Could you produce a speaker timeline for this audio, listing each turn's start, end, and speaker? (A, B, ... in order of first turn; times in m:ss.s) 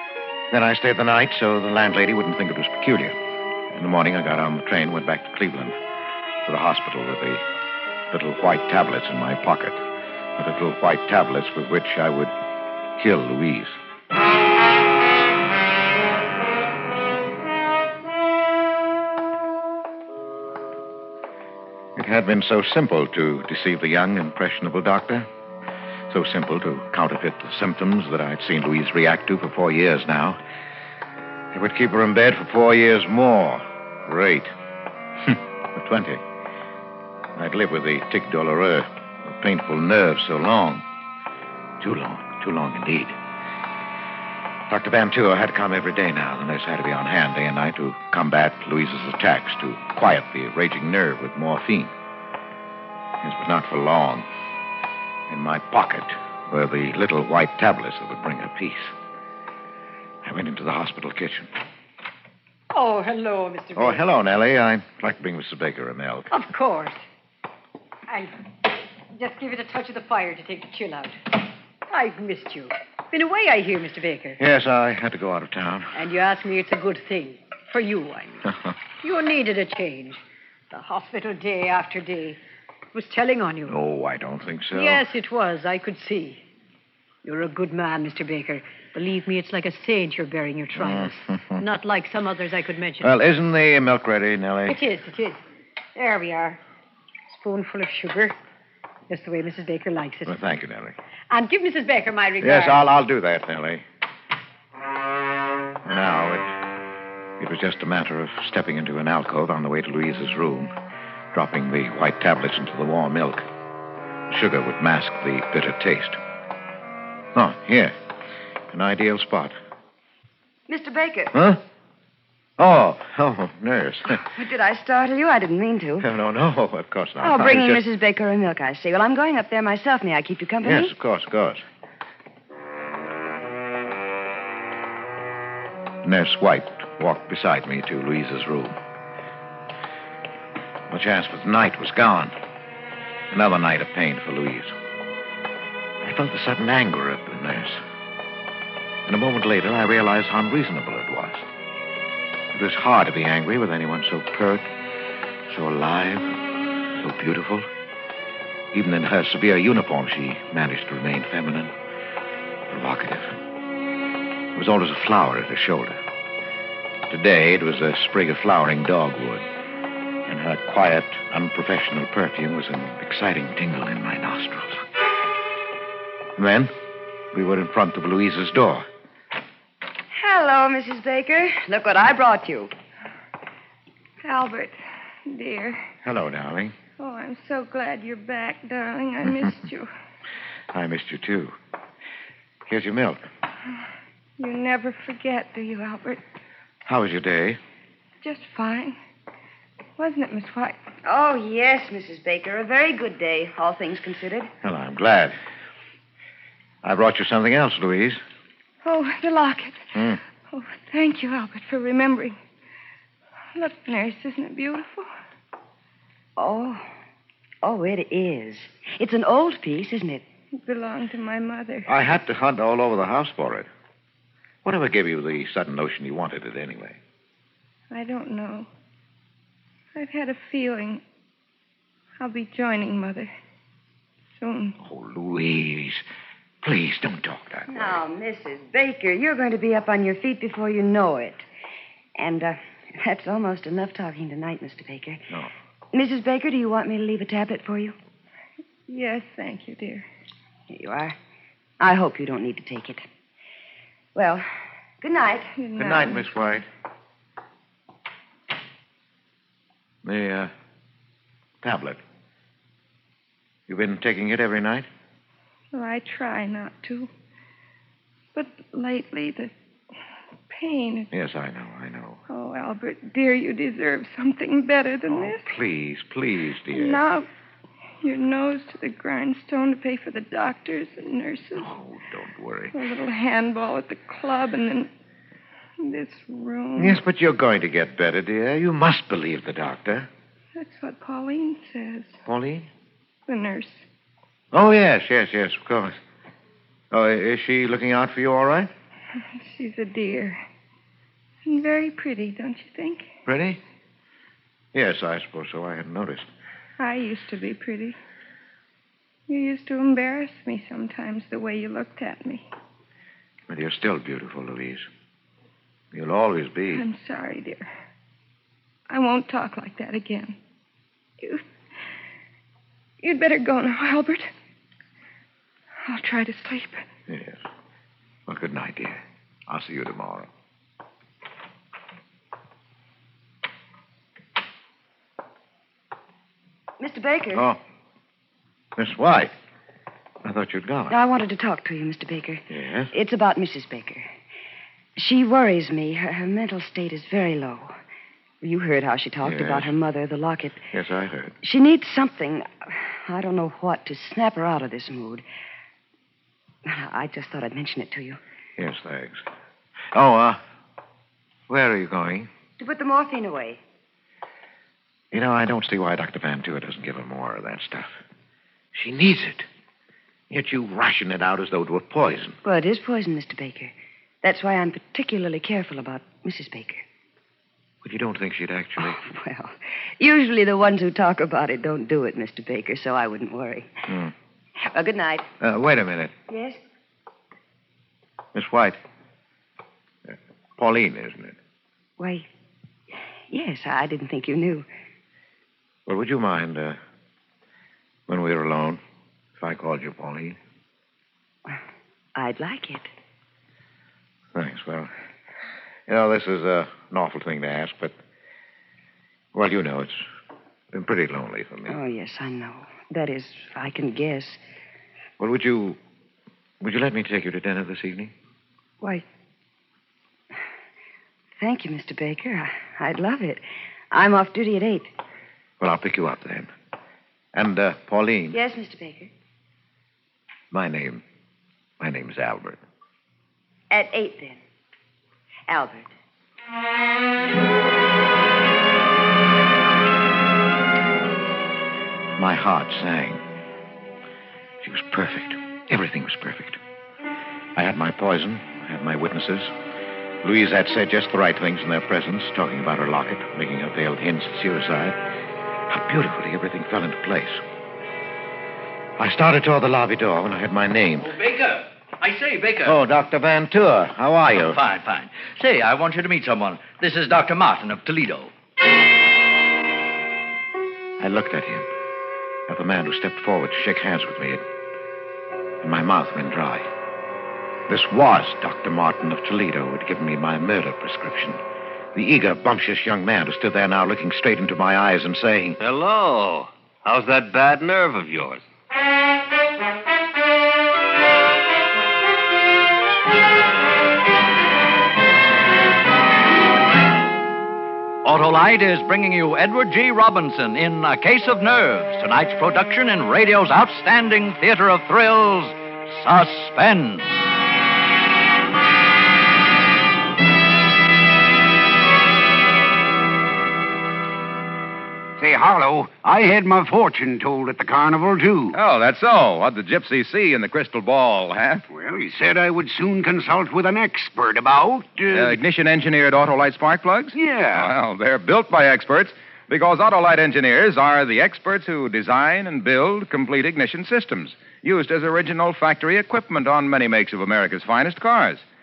0:00.5-0:03.1 A
0:03.7-0:05.8 A
0:06.5-0:07.4 A
0:08.1-0:09.8 A
0:10.4-0:12.3 A
0:13.0-0:13.8 A
0:22.0-0:25.3 A
0:26.1-0:30.4 A
0:31.5-0:34.5 A
0:35.3-0:36.2 A
0:37.4-0:40.8 A
0:41.8-0:43.2 A
0:44.7-0:51.9 A
0:53.2-0:54.3 A
0:55.3-0:58.9 A
1:00.2-1:01.5 A
1:02.7-1:04.0 B
1:03.8-1:06.3 A
1:06.3-1:07.0 B
1:09.2-1:11.2 B
1:11.9-1:14.4 B
1:14.4-1:15.9 A
1:15.9-1:18.5 B
1:19.0-1:22.4 B
1:22.9-1:23.8 B
1:23.7-1:25.0 A
1:24.7-1:26.4 B
1:27.2-1:33.1 B
1:30.8-1:31.6 A
1:33.0-1:34.8 A
1:34.7-1:35.4 B
1:36.0-1:36.6 B
1:37.3-1:38.4 B
1:39.1-1:40.4 B
1:40.2-1:41.0 A
1:41.3-1:42.9 B
1:42.4-1:43.8 A
1:45.9-1:46.5 A
1:47.4-1:50.7 A
1:51.3-1:53.4 A
1:54.3-1:56.2 A
1:57.4-1:57.9 A
1:58.7-1:59.6 A
2:00.7-2:01.4 C
2:01.3-2:01.6 A
2:02.6-2:04.2 A
2:04.2-2:06.1 C
2:06.0-2:07.8 A
2:07.2-2:10.9 C
2:10.6-2:11.6 A
2:16.0-2:18.8 A
2:20.9-2:22.3 A
2:23.3-2:24.7 A
2:26.0-2:27.8 A
2:29.1-2:31.4 A
2:32.5-2:34.7 A
2:35.5-2:36.4 A
2:37.0-2:37.7 A
2:38.7-2:41.7 A
2:42.7-2:43.4 A
2:44.6-2:46.0 A
2:47.1-2:49.5 A
2:50.3-2:54.8 A
2:56.4-2:56.7 A
2:57.3-2:58.9 A
3:00.2-3:02.7 C
3:04.2-3:05.8 D
3:06.0-3:06.7 A
3:07.0-3:09.9 D
3:10.7-3:11.6 A
3:12.7-3:13.2 A
3:14.4-3:16.2 D
3:16.9-3:17.6 A
3:18.2-3:19.0 D
3:20.0-3:20.8 D
3:21.0-3:24.5 C
3:24.6-3:25.4 A
3:26.8-3:28.2 A
3:28.8-3:29.9 D
3:30.0-3:30.2 A
3:30.5-3:32.4 D
3:33.6-3:35.1 D
3:36.4-3:36.9 C
3:37.6-3:40.2 C
3:40.6-3:41.9 D
3:41.9-3:43.7 A
3:44.6-3:47.0 A
3:47.9-3:48.7 D
3:50.0-3:51.0 D
3:52.2-3:53.3 D
3:54.4-3:54.8 D
3:54.8-3:56.0 A
3:56.6-3:58.0 A
3:57.7-4:01.4 C
4:02.2-4:05.3 C
4:05.9-4:08.0 C
4:08.9-4:10.0 D
4:10.7-4:11.2 C
4:11.8-4:13.0 C
4:14.2-4:14.5 C
4:15.0-4:15.5 C
4:15.6-4:16.6 D
4:15.8-4:16.7 A
4:20.0-4:20.5 A
4:21.6-4:22.0 A
4:23.7-4:24.9 A
4:25.7-4:27.1 D
4:28.3-4:29.5 D
4:30.5-4:31.1 D
4:31.1-4:32.2 A
4:32.3-4:35.4 D
4:35.1-4:37.0 A
4:36.7-4:37.3 D
4:38.0-4:41.7 D
4:41.6-4:42.8 A
4:42.7-4:44.9 D
4:45.8-4:47.0 D
4:46.8-4:50.1 A
4:50.6-4:52.2 D
4:52.3-4:52.7 A
4:53.3-4:53.8 D
4:54.5-4:55.9 A
4:56.9-4:58.7 A
4:59.4-5:00.4 D
5:01.4-5:03.1 D
5:03.3-5:03.6 A
5:04.7-5:06.3 A
5:06.8-5:08.0 D
5:09.3-5:12.5 D
5:13.5-5:14.9 A
5:15.9-5:16.8 A
5:16.7-5:17.7 D
5:18.9-5:20.4 D
5:21.2-5:21.4 D
5:23.0-5:24.3 D
5:25.9-5:26.9 D
5:27.1-5:27.4 A
5:28.3-5:30.3 A
5:36.8-5:37.5 C
5:37.3-5:37.6 A
5:38.8-5:39.3 A
5:40.2-5:41.0 A
5:40.9-5:44.1 C
5:42.5-5:42.9 A
5:45.0-5:47.7 C
5:48.4-5:50.6 C
5:49.2-5:49.7 A
5:50.7-5:51.3 A
5:51.4-5:55.2 C
5:56.6-5:58.2 C
5:58.6-5:59.2 A
5:59.9-6:00.4 A
6:01.5-6:02.3 A
6:02.6-6:03.6 C
6:05.1-6:08.0 A
6:08.7-6:09.5 A
6:10.3-6:12.4 A
6:12.4-6:16.8 C
6:17.8-6:19.0 A
6:18.8-6:23.9 C
6:24.7-6:25.3 C
6:25.4-6:26.1 A
6:26.3-6:26.6 C
6:28.4-6:28.8 A
6:30.1-6:31.4 A
6:32.0-6:32.3 C
6:33.3-6:34.7 C
6:35.9-6:36.8 A
6:38.1-6:38.8 A
6:39.4-6:40.4 A
6:42.2-6:42.9 C
6:44.3-6:44.9 A
6:45.9-6:48.0 A
6:49.3-6:50.1 A
6:50.7-6:51.8 A
6:51.7-6:54.4 C
6:55.2-6:55.8 A
6:56.6-6:58.1 A
7:01.4-7:04.9 C
7:05.6-7:06.5 A
7:07.3-7:08.4 A
7:08.3-7:09.1 C
7:10.5-7:11.0 A
7:11.8-7:12.6 A
7:13.7-7:14.4 C
7:15.5-7:15.9 C
7:22.2-7:23.2 A
7:24.6-7:26.6 A
7:27.6-7:29.5 A
7:30.2-7:35.0 A
7:35.7-7:37.4 A
7:39.0-7:41.1 A
7:41.0-7:42.8 E
7:42.7-7:44.6 A
7:44.4-7:48.3 E
7:51.0-7:51.7 A
7:52.5-7:54.4 A
7:55.6-7:56.7 A
7:57.7-8:01.4 A
8:01.9-8:05.6 A
8:05.6-8:08.4 F
8:18.0-8:27.3 E
8:35.2-8:38.6 G
8:38.5-8:41.6 H
8:41.7-8:45.4 G
8:45.1-8:58.4 H
8:47.1-8:47.7 G